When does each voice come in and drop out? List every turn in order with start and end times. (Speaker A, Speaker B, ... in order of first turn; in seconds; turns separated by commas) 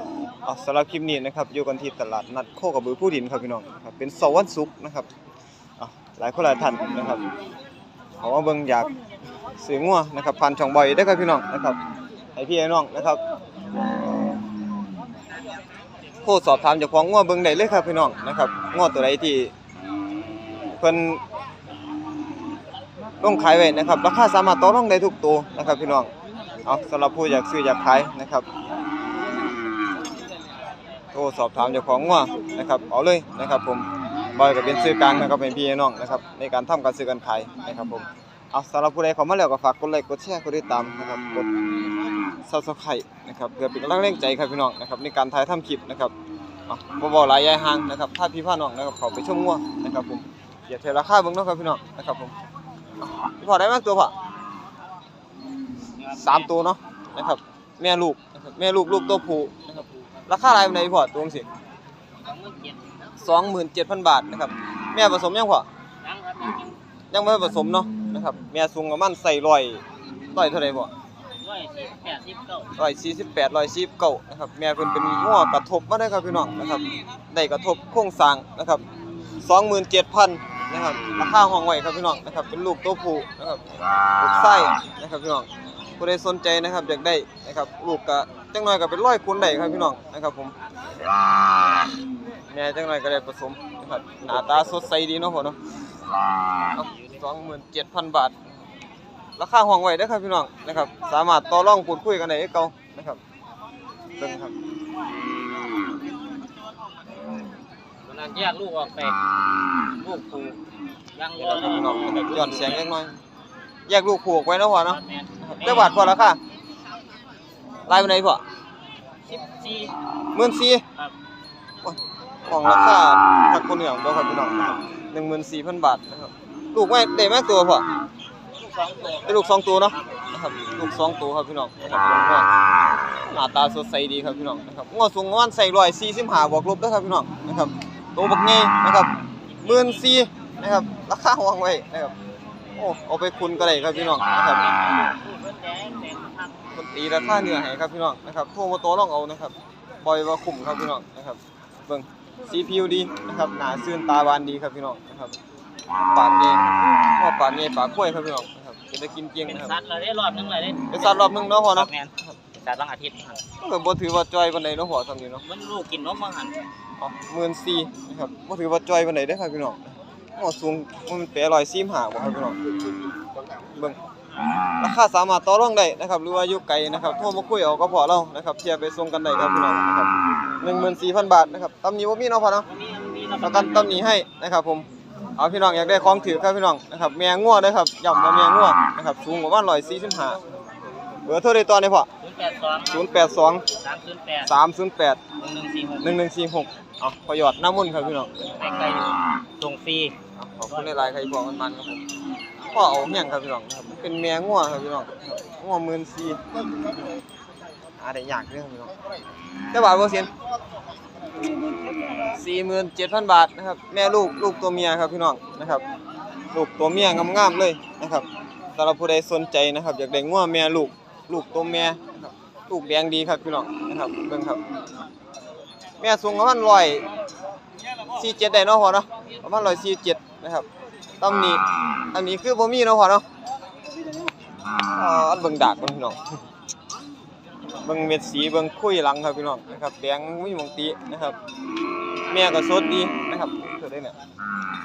Speaker A: 0.4-5.1, Speaker A: 5.8-7.2, Speaker A: 8.2-9.0, Speaker A: 9.6-11.8, Speaker A: 12.3-13.2, Speaker A: 16.2-19.5, Speaker A: 20.7-21.2, Speaker A: 23.2-26.1, Speaker A: 26.6-28.4, Speaker A: 31.1-41.5, Speaker A: 42.4-46.1, Speaker A: 46.7-52.3, Speaker A: 53.0-54.1, Speaker B: 56.0-56.5, Speaker A: 56.1-61.5, Speaker B: 62.2-63.1, Speaker A: 63.2-65.7, Speaker B: 66.0-66.8, Speaker A: 67.1-69.8, Speaker A: 70.3-70.9, Speaker B: 71.4-72.7, Speaker A: 72.8-78.8, Speaker A: 79.4-83.6, Speaker A: 84.2-85.5, Speaker A: 86.0-90.5, Speaker A: 92.5-95.6, Speaker A: 96.7-98.4, Speaker A: 99.4-103.2, Speaker A: 104.2-104.5, Speaker B: 108.0-109.2, Speaker B: 110.0-110.6, Speaker B: 111.1-112.8, Speaker A: 111.4-113.2, Speaker A: 113.9-116.4, Speaker B: 114.8-115.9, Speaker A: 117.9-118.4, Speaker B: 119.3-119.9, Speaker A: 120.3-120.8, Speaker A: 121.8-127.8, Speaker B: 128.7-130.2, Speaker A: 129.2-132.5, Speaker A: 133.2-142.1, Speaker B: 139.5-140.0, Speaker A: 142.7-144.7, Speaker B: 143.7-146.6, Speaker A: 146.7-155.4, Speaker A: 156.1-159.8, Speaker B: 159.4-163.4, Speaker A: 160.9-162.3, Speaker A: 163.6-165.4, Speaker B: 165.4-166.6, Speaker A: 167.0-172.6, Speaker A: 173.7-174.0, Speaker A: 174.8-182.7, Speaker B: 182.7-184.0, Speaker A: 183.4-190.4, Speaker A: 191.2-192.1, Speaker B: 192.2-193.1, Speaker A: 192.9-193.6, Speaker B: 193.7-194.5, Speaker A: 194.4-195.2, Speaker B: 195.4-196.1, Speaker A: 196.0-198.6, Speaker B: 198.5-200.2, Speaker A: 200.4-202.0, Speaker B: 200.7-201.1, Speaker A: 202.7-206.4, Speaker A: 208.0-208.9, Speaker A: 209.7-210.3, Speaker A: 212.2-215.8, Speaker A: 216.5-224.6, Speaker A: 226.0-227.1, Speaker A: 228.1-230.7, Speaker A: 231.2-233.2, Speaker A: 234.9-236.2, Speaker A: 237.8-241.3, Speaker A: 242.3-244.2